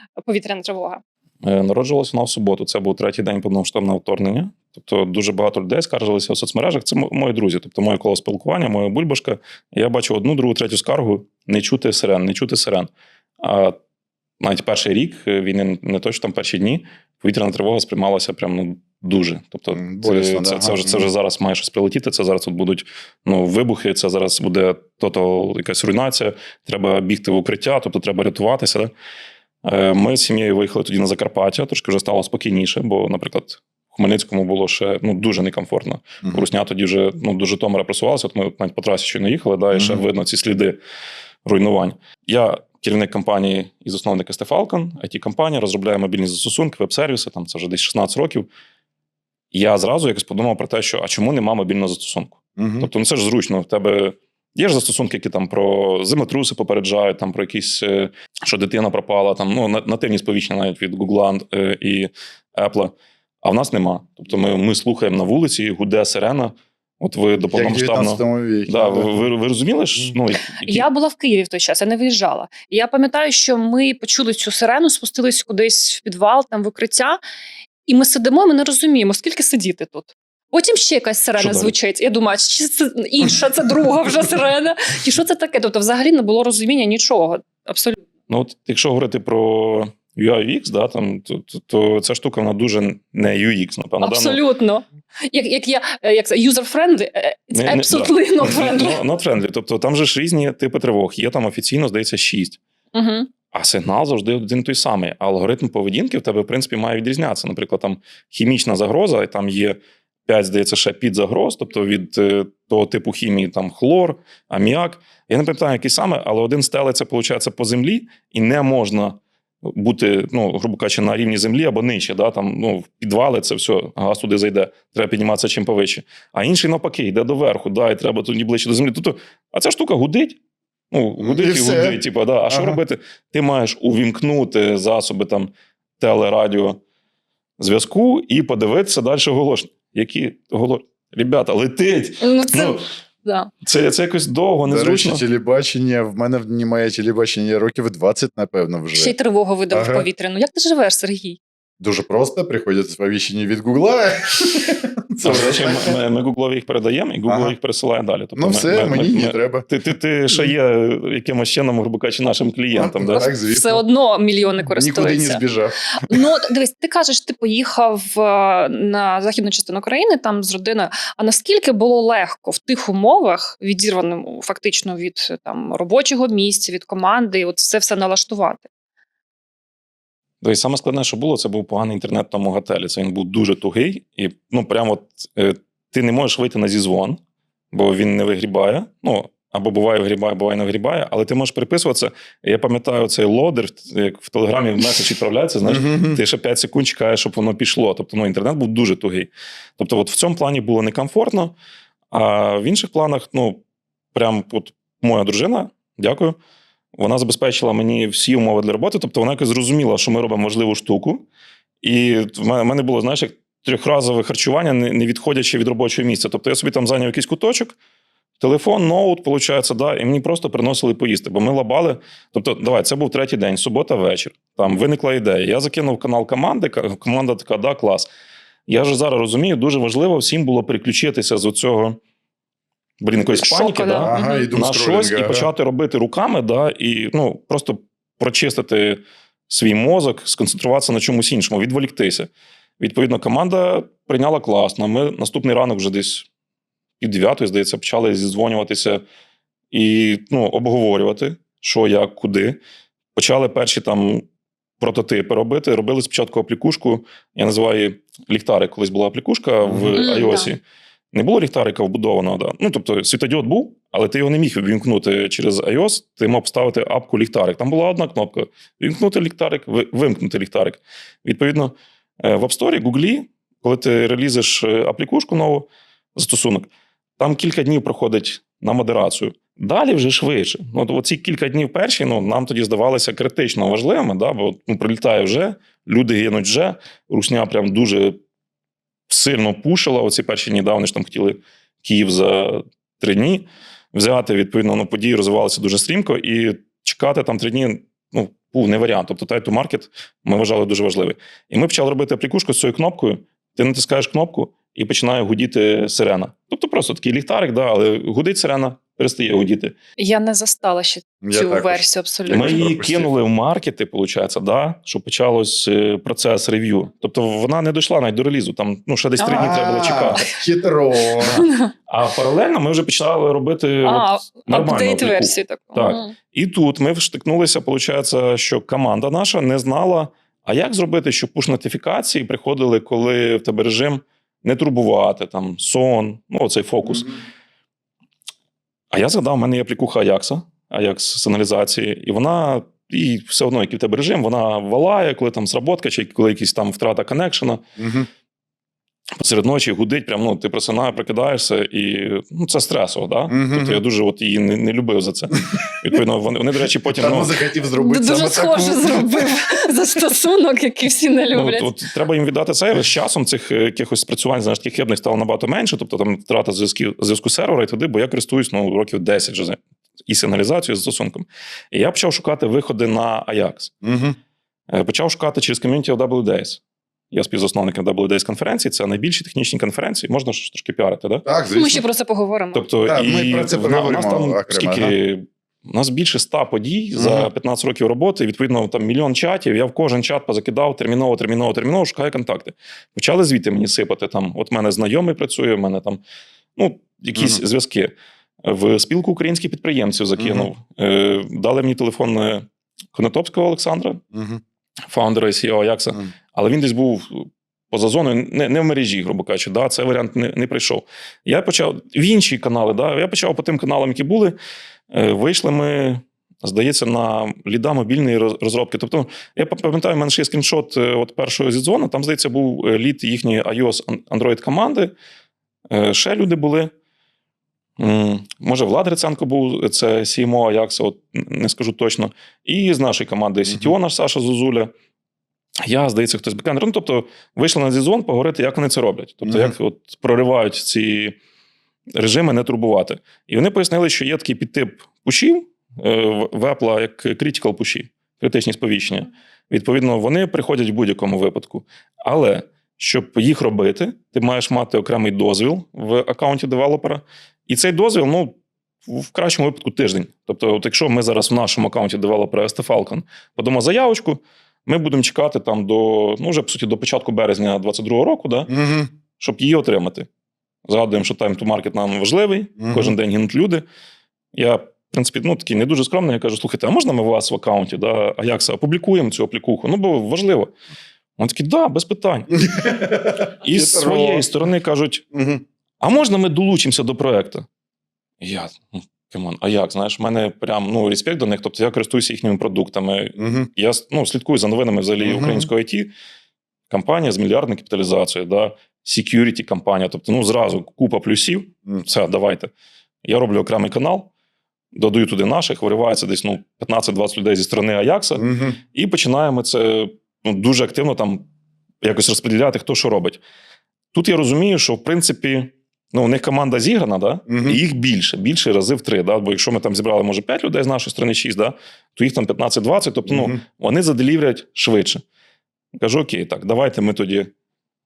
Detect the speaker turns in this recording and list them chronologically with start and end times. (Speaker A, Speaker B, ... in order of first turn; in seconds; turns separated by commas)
Speaker A: 0.2-1.0, Speaker B: 1.4-13.8, Speaker B: 14.4-28.9, Speaker C: 19.7-21.1, Speaker B: 29.6-40.8, Speaker C: 39.7-40.0, Speaker B: 41.5-48.5, Speaker B: 49.5-70.9, Speaker C: 52.6-52.9, Speaker C: 67.5-69.3, Speaker A: 70.7-77.2, Speaker A: 77.9-88.0, Speaker B: 81.4-81.7, Speaker B: 88.3-94.4, Speaker A: 94.0-99.0, Speaker B: 97.5-102.6, Speaker A: 102.9-103.3, Speaker B: 103.5-130.4, Speaker B: 130.9-136.8, Speaker C: 131.2-132.8, Speaker B: 137.6-142.8, Speaker A: 142.2-143.5, Speaker B: 143.6-145.2, Speaker C: 144.6-149.1, Speaker A: 148.9-151.4, Speaker C: 149.7-150.1, Speaker C: 151.8-156.0, Speaker B: 155.2-163.3, Speaker C: 157.3-157.6, Speaker C: 158.4-159.7, Speaker C: 162.7-163.8, Speaker A: 163.4-165.4, Speaker C: 164.7-165.9, Speaker A: 166.0-178.7, Speaker B: 180.4-187.2, Speaker B: 187.7-201.6, Speaker C: 195.7-196.2, Speaker B: 202.1-203.6, Speaker B: 204.1-206.4, Speaker B: 207.0-211.2, Speaker B: 211.8-217.8, Speaker B: 218.4-228.1, Speaker B: 228.7-232.0, Speaker B: 233.0-242.3, Speaker A: 233.3-234.5, Speaker C: 234.0-235.5, Speaker B: 242.8-246.3, Speaker B: 247.0-249.0, Speaker B: 249.7-252.6, Speaker B: 253.2-254.2, Speaker B: 254.8-260.6, Speaker C: 259.6-260.0, Speaker A: 260.0-260.5, Speaker B: 261.1-288.2, Speaker B: 289.1-309.8, Speaker A: 310.0-312.6, Speaker C: 311.2-313.1, Speaker B: 312.3-320.3, Speaker A: 319.2-320.3, Speaker C: 319.4-321.4, Speaker B: 321.2-337.2, Speaker A: 321.3-321.7, Speaker A: 323.8-326.1, Speaker B: 338.9-347.6, Speaker C: 347.8-348.1, Speaker B: 349.2-357.3, Speaker C: 353.3-353.8, Speaker C: 356.9-359.1, Speaker A: 357.7-361.7, Speaker B: 361.3-373.7, Speaker C: 373.8-374.2, Speaker B: 374.7-376.6, Speaker B: 377.1-381.2, Speaker C: 381.2-381.9, Speaker A: 381.5-382.6, Speaker B: 382.5-396.0, Speaker C: 382.9-384.9, Speaker C: 387.0-387.3, Speaker B: 396.6-404.0, Speaker C: 397.1-397.4, Speaker C: 400.2-400.5, Speaker C: 404.1-404.4, Speaker B: 404.9-414.4, Speaker B: 414.9-424.9, Speaker B: 425.7-426.7, Speaker B: 427.8-434.7, Speaker C: 433.5-433.7, Speaker B: 435.6-441.2, Speaker C: 439.2-439.6, Speaker B: 441.9-468.5, Speaker C: 468.5-468.9, Speaker B: 469.2-470.1, Speaker B: 470.7-473.6, Speaker C: 472.6-472.9, Speaker B: 474.3-480.5, Speaker B: 481.2-482.4, Speaker C: 482.4-484.3, Speaker B: 483.4-485.1, Speaker C: 485.1-485.4, Speaker B: 485.8-487.5, Speaker B: 488.2-495.9, Speaker C: 493.2-493.5, Speaker C: 495.0-495.5, Speaker B: 496.7-502.5, Speaker B: 503.0-504.1, Speaker B: 504.7-511.3, Speaker C: 508.2-508.6, Speaker B: 511.8-513.2, Speaker B: 513.9-525.0, Speaker C: 517.3-517.6, Speaker C: 523.1-523.4, Speaker B: 525.8-527.3